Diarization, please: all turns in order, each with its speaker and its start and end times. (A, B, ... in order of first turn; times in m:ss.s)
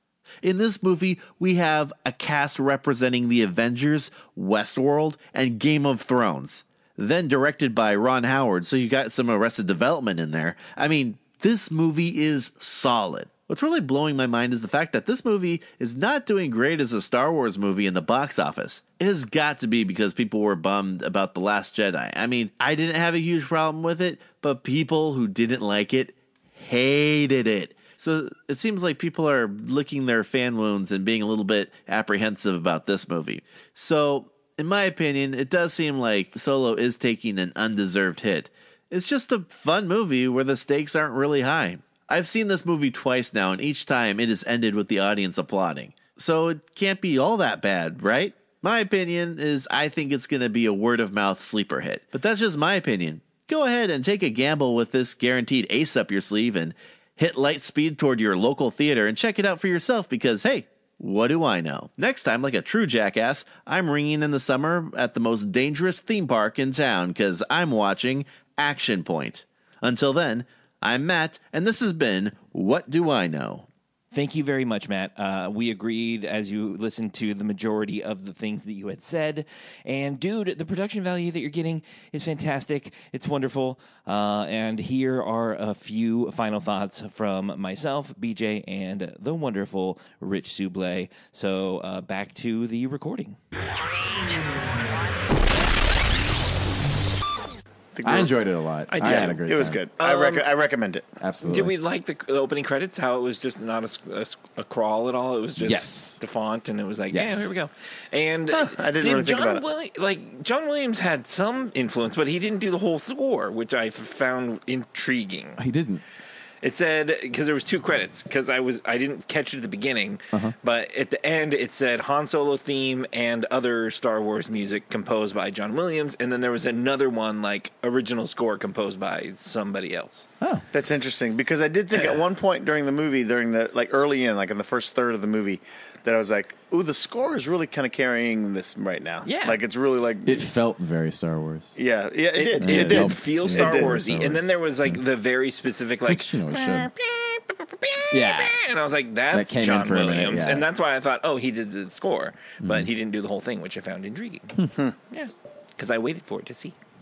0:00.4-1:13.7 A
1:14.1-1:33.4 B
1:38.0-1:38.3 C
1:38.0-1:39.8 D
1:38.9-1:39.4 B
1:39.1-1:41.1 C
1:40.0-1:40.5 B
1:41.2-1:41.8 D
1:41.4-1:55.6 B
1:45.6-1:46.2 D
1:47.1-1:47.7 D
1:48.5-1:49.6 C
1:55.6-1:56.0 D
1:56.6-2:10.3 B
2:10.4-2:10.7 D
2:10.7-2:20.5 C
2:19.2-2:19.6 B
2:20.2-2:21.8 D
2:21.8-2:24.0 C
2:22.4-2:34.6 B
2:22.5-2:25.0 D
2:26.1-2:26.9 D
2:28.1-2:28.6 D
2:29.3-2:30.7 D
2:32.6-2:32.9 D
2:35.1-2:36.8 B